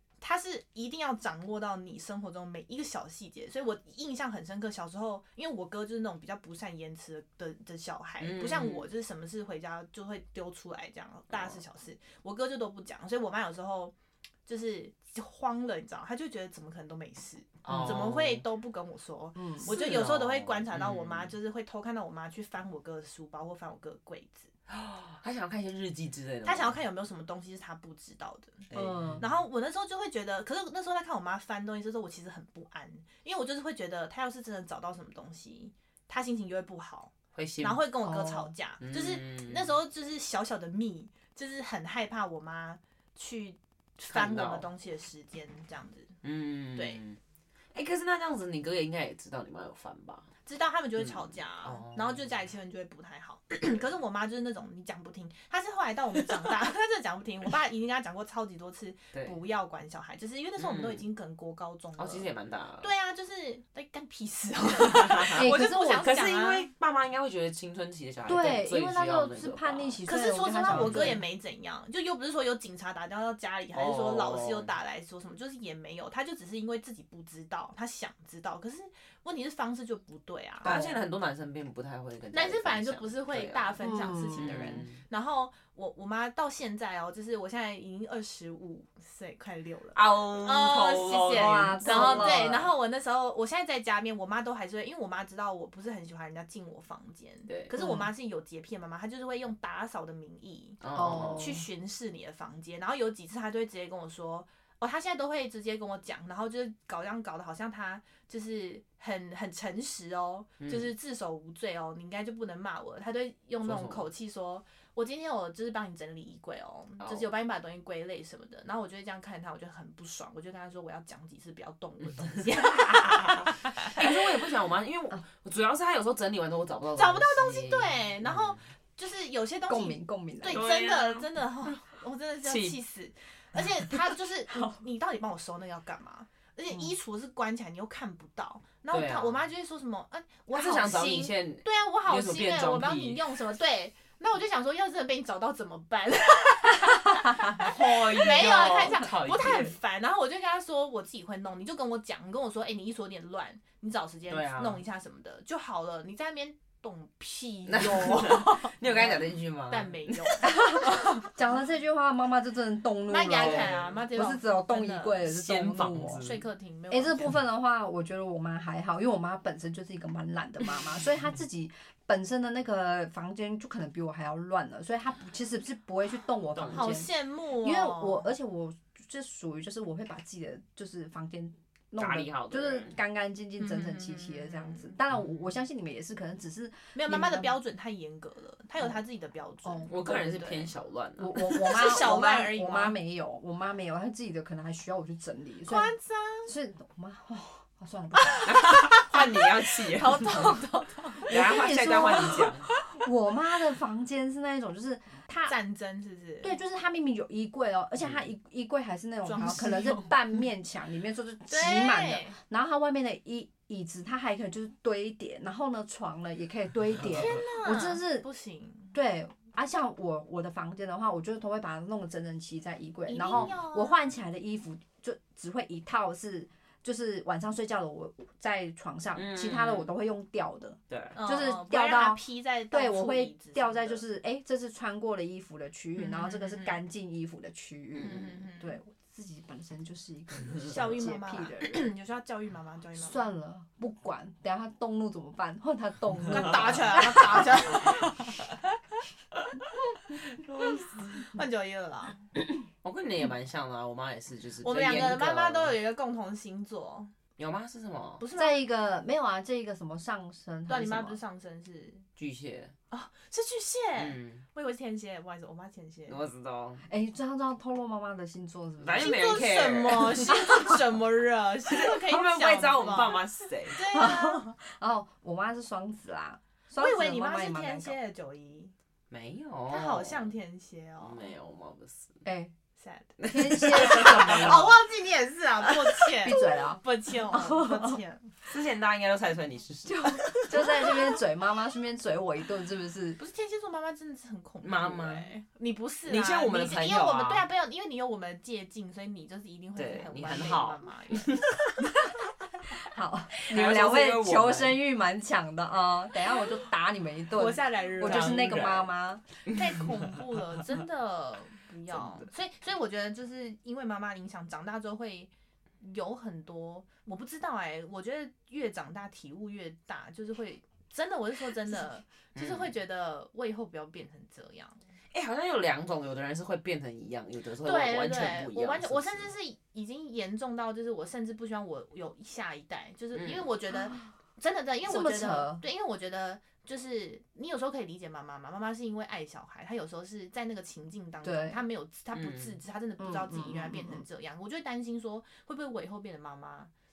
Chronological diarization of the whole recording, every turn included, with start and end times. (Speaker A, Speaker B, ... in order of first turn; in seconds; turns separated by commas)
Speaker A: 0.2-13.9, Speaker B: 8.2-8.9, Speaker B: 11.3-11.6, Speaker A: 14.5-24.5, Speaker B: 17.6-18.4, Speaker C: 19.4-19.7, Speaker B: 19.6-21.4, Speaker B: 24.7-26.8, Speaker A: 26.4-46.1, Speaker B: 28.7-29.3, Speaker C: 28.7-29.2, Speaker B: 37.3-37.8, Speaker C: 38.0-38.5, Speaker B: 38.8-39.8, Speaker B: 44.1-44.7, Speaker B: 46.2-47.2, Speaker A: 46.8-47.0, Speaker B: 47.7-50.3, Speaker A: 50.5-66.7, Speaker B: 51.0-52.5, Speaker B: 60.6-61.0, Speaker B: 62.0-62.9, Speaker B: 64.9-70.0, Speaker C: 65.3-66.1, Speaker C: 68.3-71.2, Speaker A: 70.1-80.8, Speaker B: 70.7-71.2, Speaker B: 73.7-74.7, Speaker B: 80.6-83.8, Speaker C: 80.7-81.0, Speaker A: 82.3-124.1, Speaker C: 83.8-84.8, Speaker B: 84.3-85.0, Speaker B: 90.0-92.7, Speaker C: 91.3-92.7, Speaker C: 97.8-98.1, Speaker B: 100.8-101.6, Speaker C: 100.9-101.7, Speaker B: 110.6-110.9, Speaker B: 113.6-114.1, Speaker B: 117.0-117.3, Speaker B: 122.2-128.6, Speaker A: 127.0-161.2, Speaker C: 129.7-130.6, Speaker B: 130.5-131.7, Speaker B: 132.4-132.8, Speaker B: 138.9-139.4, Speaker B: 140.5-143.2, Speaker B: 147.6-149.8, Speaker B: 154.3-154.8, Speaker B: 157.7-160.6, Speaker C: 157.8-159.2, Speaker C: 160.4-166.2, Speaker A: 163.1-165.2, Speaker B: 163.3-164.0, Speaker B: 165.3-166.4, Speaker A: 166.1-167.3, Speaker C: 166.9-177.1, Speaker B: 176.6-177.1, Speaker A: 176.7-178.3, Speaker C: 177.6-187.6, Speaker B: 182.0-182.9, Speaker A: 183.6-184.9, Speaker A: 186.9-190.7, Speaker B: 189.9-191.4, Speaker C: 191.2-195.9, Speaker A: 191.4-193.0, Speaker A: 195.7-196.5, Speaker C: 196.5-198.5, Speaker A: 198.2-201.4, Speaker B: 198.4-200.6, Speaker C: 201.2-205.6, Speaker B: 201.3-202.7, Speaker A: 202.7-203.0, Speaker A: 205.5-206.5, Speaker C: 206.4-218.3, Speaker A: 209.2-210.4, Speaker A: 211.5-212.4, Speaker A: 217.0-218.9, Speaker C: 218.9-241.8, Speaker A: 223.1-224.0, Speaker B: 223.3-223.5, Speaker B: 229.2-229.9, Speaker B: 230.9-231.2, Speaker A: 231.2-234.0, Speaker A: 236.0-236.8, Speaker B: 237.9-238.4, Speaker A: 238.0-238.8, Speaker A: 240.6-243.2, Speaker C: 242.9-247.6, Speaker A: 246.3-248.8, Speaker A: 250.5-252.2, Speaker B: 252.8-255.8, Speaker A: 254.6-257.1, Speaker B: 257.4-258.2, Speaker A: 258.2-258.6, Speaker C: 258.4-261.2, Speaker A: 260.7-262.1, Speaker B: 262.2-262.7, Speaker A: 262.9-266.2, Speaker B: 264.0-264.4, Speaker B: 266.1-266.8, Speaker C: 266.9-269.1, Speaker B: 268.8-270.3, Speaker A: 269.0-274.6, Speaker B: 271.7-273.9, Speaker C: 273.9-278.0, Speaker A: 276.7-278.7, Speaker B: 279.1-280.3, Speaker A: 279.7-281.3, Speaker B: 281.0-282.2, Speaker C: 282.2-282.5, Speaker A: 282.8-288.3, Speaker B: 283.2-284.7, Speaker C: 283.3-284.7, Speaker C: 286.2-288.0, Speaker B: 288.5-291.1, Speaker C: 289.9-293.2, Speaker A: 293.2-301.5, Speaker B: 294.6-295.3, Speaker B: 296.1-297.5, Speaker B: 299.8-301.9, Speaker C: 302.8-309.2, Speaker B: 303.5-304.8, Speaker A: 307.4-308.6, Speaker B: 308.0-308.9, Speaker A: 309.5-315.3, Speaker B: 309.5-310.2, Speaker B: 311.9-312.3, Speaker A: 315.8-324.8, Speaker B: 322.4-322.7, Speaker B: 325.1-329.3, Speaker A: 327.6-346.7, Speaker B: 333.1-333.5, Speaker C: 334.9-335.6, Speaker C: 341.2-341.6, Speaker B: 342.1-342.6, Speaker C: 343.0-344.0